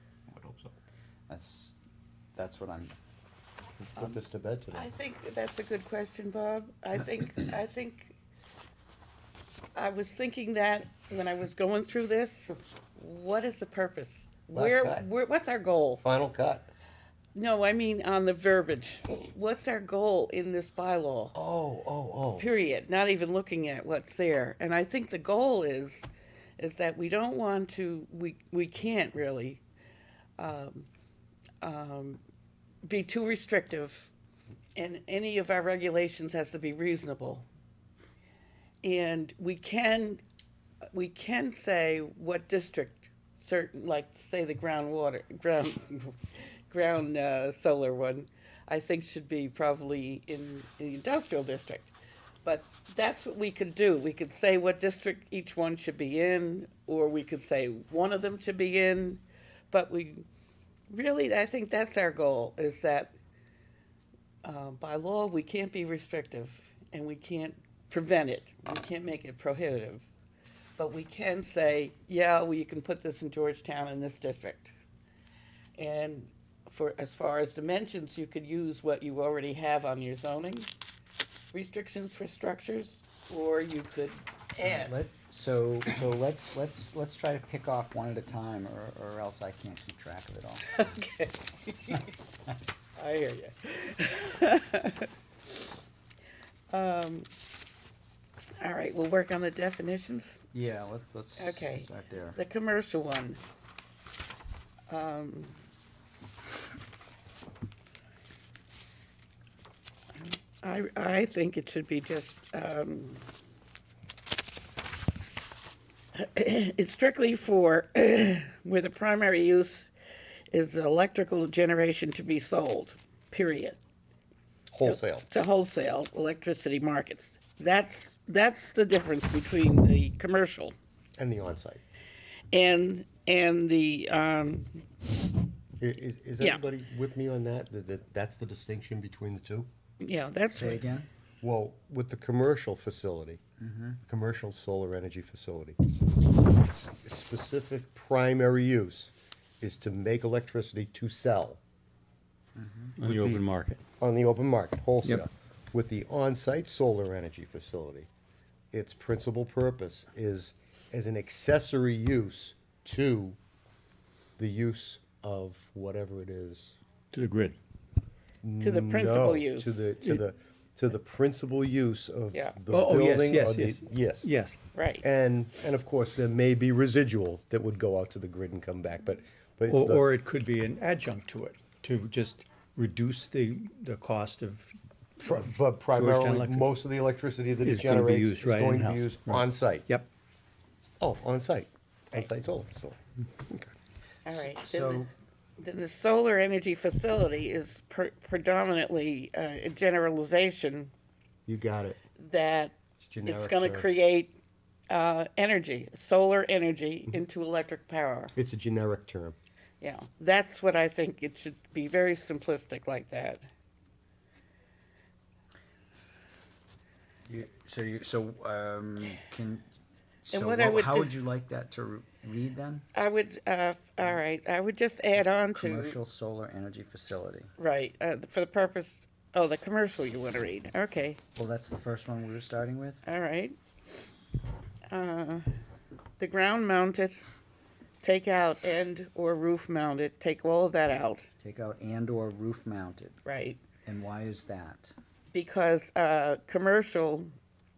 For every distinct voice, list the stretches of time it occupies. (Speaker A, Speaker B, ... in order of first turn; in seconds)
Speaker A: 0.3-0.7, 3.8-4.9, 14.5-15.1, 16.0-16.7, 21.3-22.5, 124.7-125.2, 131.2-131.8, 135.8-139.7, 141.4-143.4, 144.1-145.8, 146.7-151.6, 153.0-153.4, 154.0-158.1, 158.7-163.4, 164.4-166.8, 168.4-174.3, 175.0-180.0, 185.2-189.9, 191.0-193.7, 201.5-202.0, 203.0-203.9, 208.3-209.3
Speaker B: 1.3-1.7, 2.3-2.9, 84.6-90.8, 100.5-102.4, 140.5-141.1, 143.6-144.0, 152.6-152.9, 194.3-195.1, 217.2-219.7, 220.2-222.8, 225.5-227.5, 231.3-233.0, 241.4-243.2, 243.8-244.9
Speaker C: 4.7-8.2, 9.7-16.0, 17.3-21.3, 22.4-26.1, 26.6-29.6, 30.4-30.9, 31.6-32.2, 32.8-34.1, 34.8-37.5, 38.8-40.2, 40.9-60.2, 60.9-63.1, 64.4-70.1, 70.8-74.7, 75.8-80.7, 81.5-85.0, 90.7-92.1, 93.0-95.1, 96.7-97.3, 98.6-100.4, 101.4-103.4, 104.9-105.6, 110.1-113.2, 116.1-119.9, 120.5-123.8, 124.8-130.7, 132.5-134.8, 140.0-140.9, 168.6-169.9, 172.3-172.6, 174.7-175.0, 194.2-200.9, 202.2-204.4, 204.9-208.3, 209.8-213.4, 220.3-221.1, 222.9-226.0, 227.6-231.2, 233.1-233.6, 234.9-235.4, 236.2-237.2, 238.0-241.2, 243.2-243.6, 245.3-247.3
Speaker D: 153.0-153.8, 167.1-167.6, 172.7-174.6, 179.7-186.7, 187.6-190.1